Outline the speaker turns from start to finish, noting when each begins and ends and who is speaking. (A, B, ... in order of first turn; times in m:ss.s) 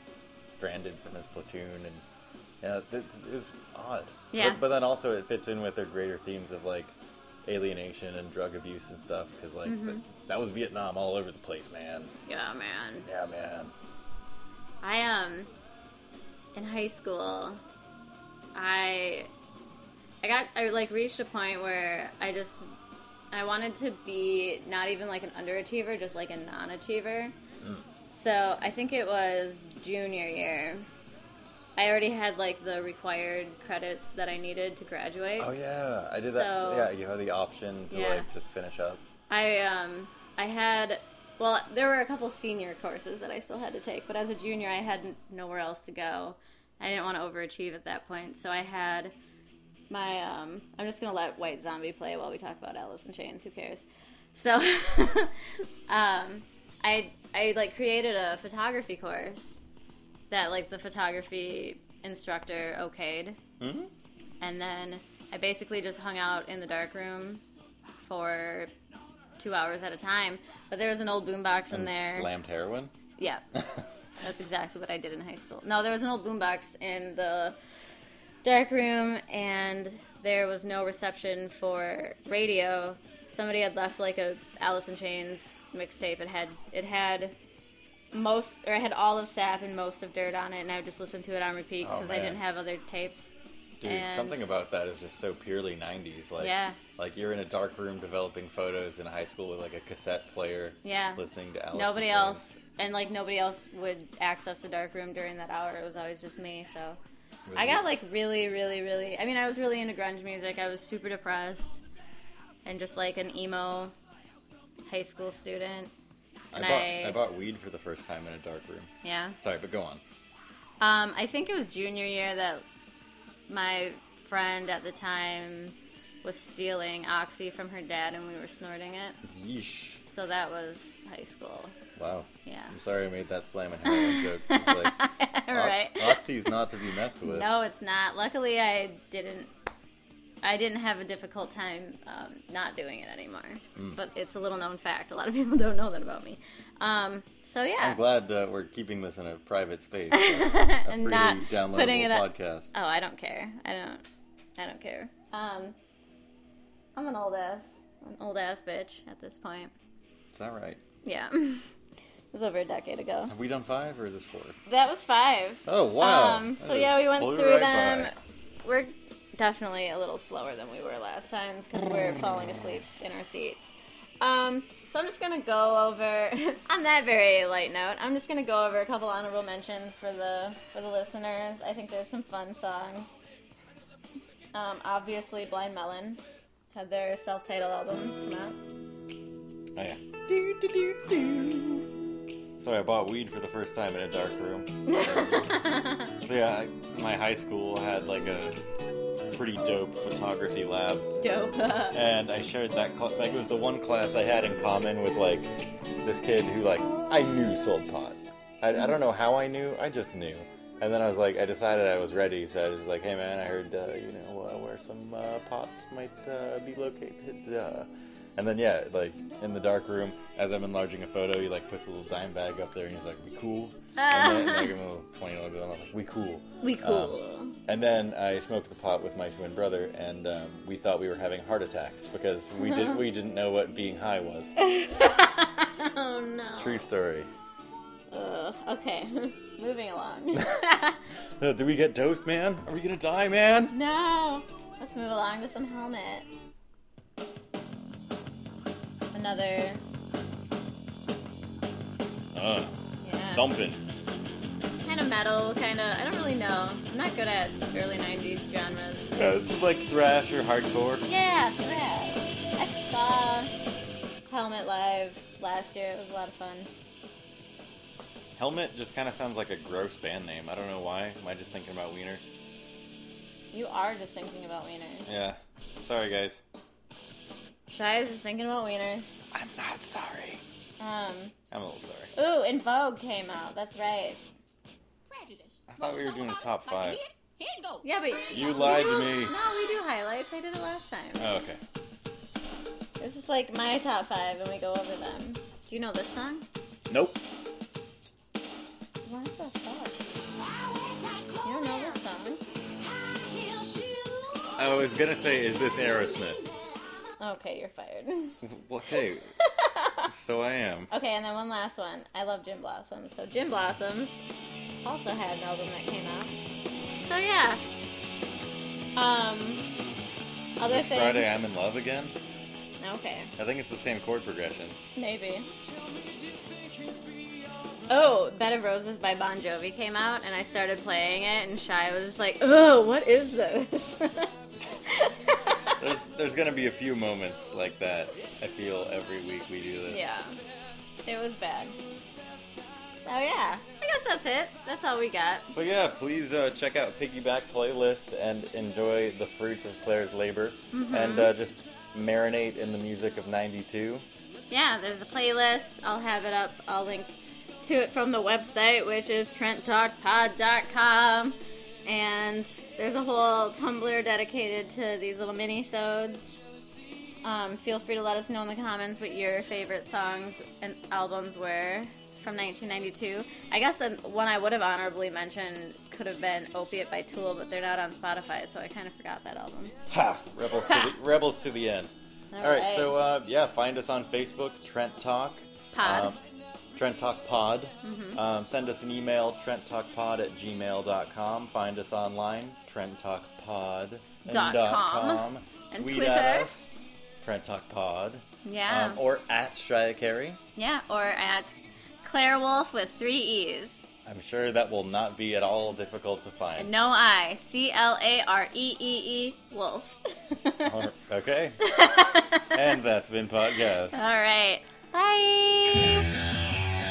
0:00.4-0:02.0 A
0:02.6-0:12.1 A
0:04.3-0:04.6 B
0:09.6-0:10.0 B
0:12.3-0:13.1 B
0:13.0-0:13.7 A
0:14.8-0:15.5 B
0:16.5-0:17.6 B
0:18.5-0:19.3 B
0:20.2-0:22.6 B
0:23.3-0:27.3 B
0:27.6-0:27.8 A
0:28.1-0:30.9 B
0:31.8-0:35.5 B
0:35.4-0:39.0 A
0:36.3-0:36.9 B
0:37.9-0:38.3 B
0:39.3-0:49.1 B
0:49.9-0:59.6 B
1:00.3-1:03.4 B
1:03.6-1:03.9 A
1:04.4-1:07.4 B
1:08.0-1:08.7 B
1:09.4-1:12.3 B
1:11.7-1:12.9 A
1:13.2-1:13.4 B
1:13.5-1:13.9 A
1:14.2-1:17.6 B
1:18.4-1:27.3 B
1:28.1-1:34.4 B
1:31.8-1:32.4 A
1:33.8-1:42.4 A
1:36.4-1:36.8 B
1:40.8-1:47.0 B
1:47.5-1:47.8 A
1:47.5-1:51.8 B
1:52.6-1:53.9 B
1:54.8-1:55.9 B
1:56.5-2:00.0 A
1:56.5-1:57.2 B
1:59.0-1:59.4 B
2:00.8-2:02.6 B
2:03.5-2:09.2 B
2:09.2-2:10.0 A
2:10.0-2:11.8 B
2:12.0-2:17.5 A
2:12.4-2:12.8 B
2:13.8-2:16.6 B
2:17.2-2:19.5 B
2:20.4-2:28.0 B
2:27.8-2:32.7 A
2:30.1-2:34.0 B
2:34.6-2:35.8 B
2:37.0-2:39.7 B
2:40.3-2:40.8 A
2:41.0-2:41.7 B
2:42.3-2:43.3 B
2:43.3-2:44.6 A
2:44.6-3:03.1 B
2:45.6-2:48.1 A
3:04.5-3:06.2 B
3:06.7-3:08.6 B
3:09.7-3:11.8 A
3:12.6-3:15.6 A
3:14.8-3:16.1 B
3:16.2-3:18.5 A
3:19.3-3:21.1 A
3:21.2-3:22.0 B
3:21.9-3:25.5 A
3:26.0-3:47.1 A
3:44.0-3:44.7 B
3:46.6-3:47.6 B
3:47.7-3:54.5 A
3:52.6-3:53.0 B
3:54.6-3:56.9 B
3:56.6-3:57.3 A
3:58.1-4:01.0 B
4:00.3-4:00.6 A
4:01.4-4:03.7 A
4:03.7-4:06.3 B
4:09.1-4:09.8 B
4:12.3-4:12.7 A
4:13.0-4:13.5 B
4:13.3-4:13.8 A
4:14.8-4:19.1 B
4:19.2-4:21.0 A
4:21.0-4:23.5 B
4:24.3-4:26.7 B
4:28.4-4:32.3 A
4:33.5-4:35.1 B
4:35.1-4:36.4 A
4:37.7-4:39.1 B
4:39.3-4:40.4 A
4:40.8-4:41.3 B
4:41.5-4:42.1 A
4:42.1-4:44.2 B
4:45.1-4:48.9 C
4:45.7-4:47.0 A
4:47.8-4:51.3 B
4:48.3-4:49.4 A
4:51.2-4:51.6 A
4:53.0-4:56.4 B
4:56.9-4:57.2 A
4:59.0-5:00.0 B
5:00.7-5:02.0 C
5:01.4-5:02.4 B
5:03.3-5:04.5 C
5:04.6-5:06.4 A
5:07.2-5:08.4 B
5:08.4-5:09.3 A
5:09.4-5:10.1 B
5:10.1-5:10.9 A
5:10.9-5:14.2 B
5:14.8-5:16.4 B
5:17.0-5:17.6 B
5:19.0-5:19.7 B
5:20.6-5:21.3 B
5:20.7-5:22.1 A
5:22.8-5:23.3 B
5:23.4-5:24.8 A
5:24.9-5:25.5 B
5:27.9-5:35.8 B
5:35.8-5:40.1 A
5:39.9-5:40.4 B
5:41.0-5:41.8 B
5:43.0-5:45.5 B
5:45.5-5:54.0 A
5:50.7-5:51.3 B
5:54.5-6:06.4 B
6:07.2-6:19.7 B
6:19.9-6:26.2 A
6:20.4-6:20.9 B
6:22.3-6:23.0 B
6:25.7-6:26.2 B
6:26.7-6:36.7 A
6:27.8-6:28.2 B
6:34.2-6:36.5 B
6:37.2-6:40.4 A
6:38.4-6:39.0 B
6:40.6-6:43.8 B
6:44.0-6:46.7 A
6:46.6-6:50.7 B
6:50.6-6:51.6 A
6:51.6-6:52.6 B
6:52.5-6:54.0 A
6:53.9-6:56.1 B